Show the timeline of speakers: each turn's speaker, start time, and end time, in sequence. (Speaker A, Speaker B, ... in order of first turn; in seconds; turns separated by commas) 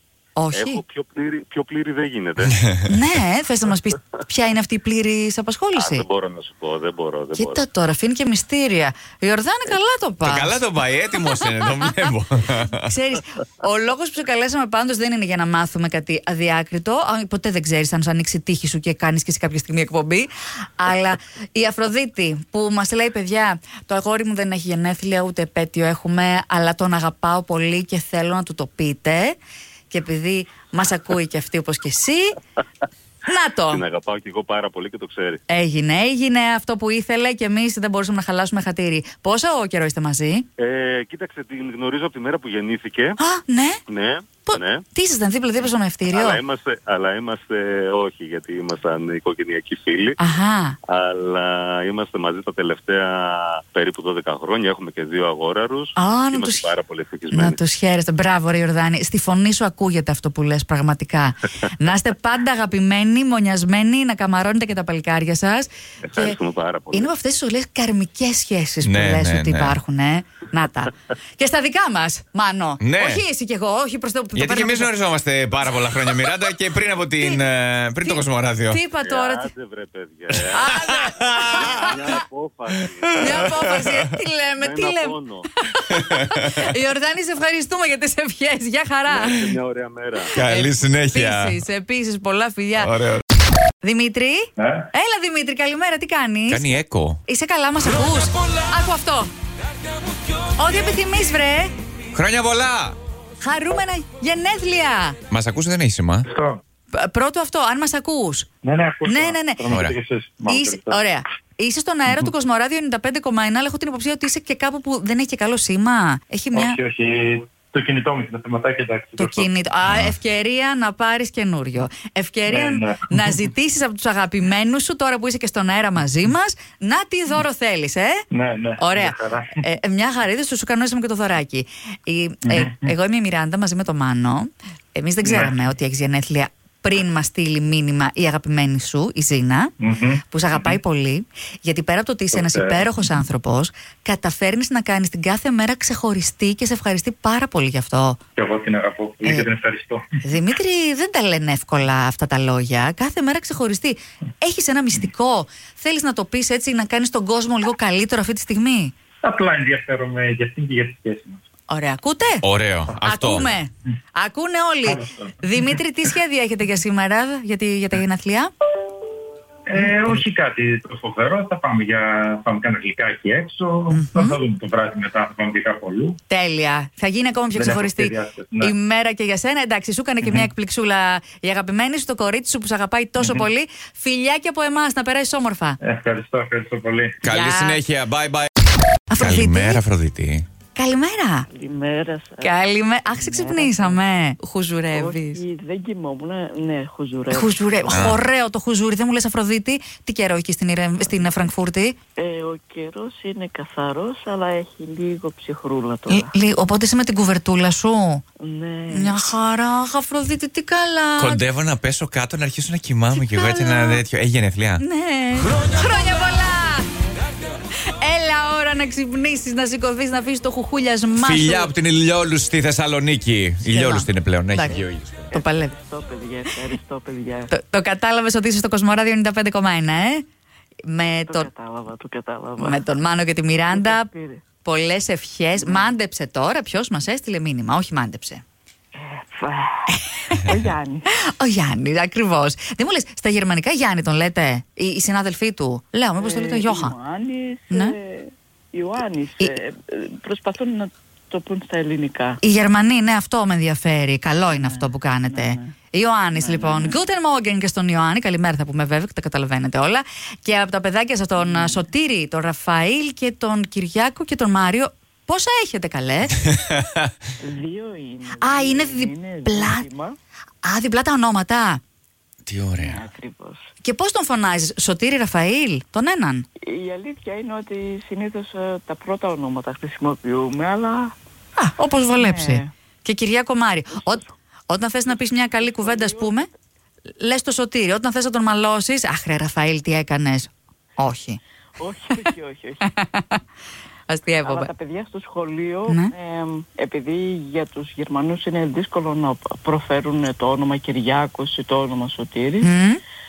Speaker A: 0.3-0.8, Speaker B: 0.5-2.6, Speaker A: 2.9-6.0, Speaker B: 5.7-7.6, Speaker A: 7.3-10.6, Speaker C: 10.2-12.9, Speaker A: 12.8-29.4, Speaker A: 29.9-32.4, Speaker A: 33.2-33.8, Speaker B: 33.7-35.4, Speaker A: 35.5-40.4, Speaker B: 40.6-43.2, Speaker A: 43.2-43.8, Speaker B: 43.9-44.8, Speaker A: 44.5-46.4, Speaker B: 46.1-50.1, Speaker A: 50.2-50.8, Speaker B: 50.9-57.6, Speaker A: 56.0-56.6, Speaker A: 57.3-66.4, Speaker B: 66.0-67.1, Speaker A: 66.9-74.9, Speaker C: 68.8-69.8, Speaker C: 72.8-73.2, Speaker C: 74.3-78.8, Speaker A: 77.2-77.4, Speaker A: 78.0-79.5, Speaker B: 79.0-80.7, Speaker C: 80.4-82.0, Speaker A: 80.5-82.2, Speaker B: 81.4-83.8, Speaker A: 83.2-89.5, Speaker C: 83.3-84.1, Speaker B: 84.6-85.5, Speaker C: 85.9-86.7, Speaker B: 89.1-90.3, Speaker C: 90.3-91.6, Speaker A: 90.4-92.9, Speaker C: 92.8-93.2, Speaker A: 93.8-96.7, Speaker D: 94.6-94.9, Speaker C: 96.5-97.2, Speaker A: 97.2-99.3, Speaker A: 100.5-101.7, Speaker C: 102.1-103.0, Speaker A: 103.4-105.2, Speaker C: 105.3-106.3, Speaker D: 106.3-106.6, Speaker A: 106.9-108.5, Speaker D: 108.6-111.0, Speaker A: 109.0-109.7, Speaker C: 109.7-109.9, Speaker A: 110.5-116.8, Speaker D: 116.5-119.5, Speaker A: 119.2-128.2, Speaker C: 119.9-120.2, Speaker D: 122.5-123.4, Speaker D: 128.3-129.6, Speaker A: 128.8-139.7, Speaker D: 132.4-132.9, Speaker D: 135.2-135.5, Speaker D: 139.8-140.7, Speaker A: 140.3-148.2, Speaker D: 142.3-142.9, Speaker D: 148.4-150.0, Speaker A: 150.2-158.9, Speaker D: 159.2-161.4, Speaker A: 161.7-162.4, Speaker C: 162.4-163.6, Speaker A: 163.0-168.5, Speaker D: 164.8-165.7, Speaker D: 169.7-176.2, Speaker A: 173.9-174.4, Speaker A: 176.3-185.8, Speaker D: 177.5-178.7, Speaker D: 185.8-187.2, Speaker C: 187.2-188.5, Speaker A: 187.2-187.8, Speaker A: 189.1-189.8, Speaker C: 189.2-190.4, Speaker A: 190.7-191.5, Speaker E: 191.5-194.0, Speaker A: 192.4-195.4, Speaker E: 194.9-198.0, Speaker A: 197.3-201.9, Speaker C: 197.9-198.2, Speaker E: 201.0-201.4, Speaker E: 202.2-206.3, Speaker A: 206.1-208.2, Speaker E: 208.4-209.3, Speaker A: 208.9-211.4, Speaker C: 211.2-214.8, Speaker A: 213.1-214.0, Speaker A: 214.8-216.9, Speaker A: 217.8-221.7, Speaker C: 221.2-225.3, Speaker A: 223.6-225.7, Speaker E: 225.3-227.5, Speaker A: 227.5-230.2, Speaker A: 230.8-231.5, Speaker E: 231.1-232.8, Speaker A: 232.6-234.1, Speaker E: 233.6-234.4, Speaker A: 234.6-238.4, Speaker E: 235.6-235.9, Speaker E: 239.0-241.1, Speaker A: 239.9-240.5, Speaker A: 241.2-246.9, Speaker E: 246.2-252.4, Speaker A: 247.7-247.9, Speaker A: 252.4-266.4, Speaker E: 254.5-255.7, Speaker E: 256.4-257.0, Speaker E: 261.4-261.9, Speaker C: 266.4-267.1, Speaker E: 267.4-270.2, Speaker A: 268.4-269.9, Speaker A: 270.6-271.8, Speaker C: 272.4-273.1, Speaker E: 272.7-273.7, Speaker A: 273.8-276.4, Speaker E: 276.6-281.1, Speaker A: 281.6-286.5, Speaker E: 282.1-282.7, Speaker E: 283.9-284.3, Speaker E: 285.1-286.5, Speaker A: 287.2-291.4, Speaker E: 291.8-293.0, Speaker A: 292.9-293.4, Speaker A: 294.1-294.7, Speaker E: 294.4-302.7, Speaker A: 295.9-296.1, Speaker A: 302.6-303.0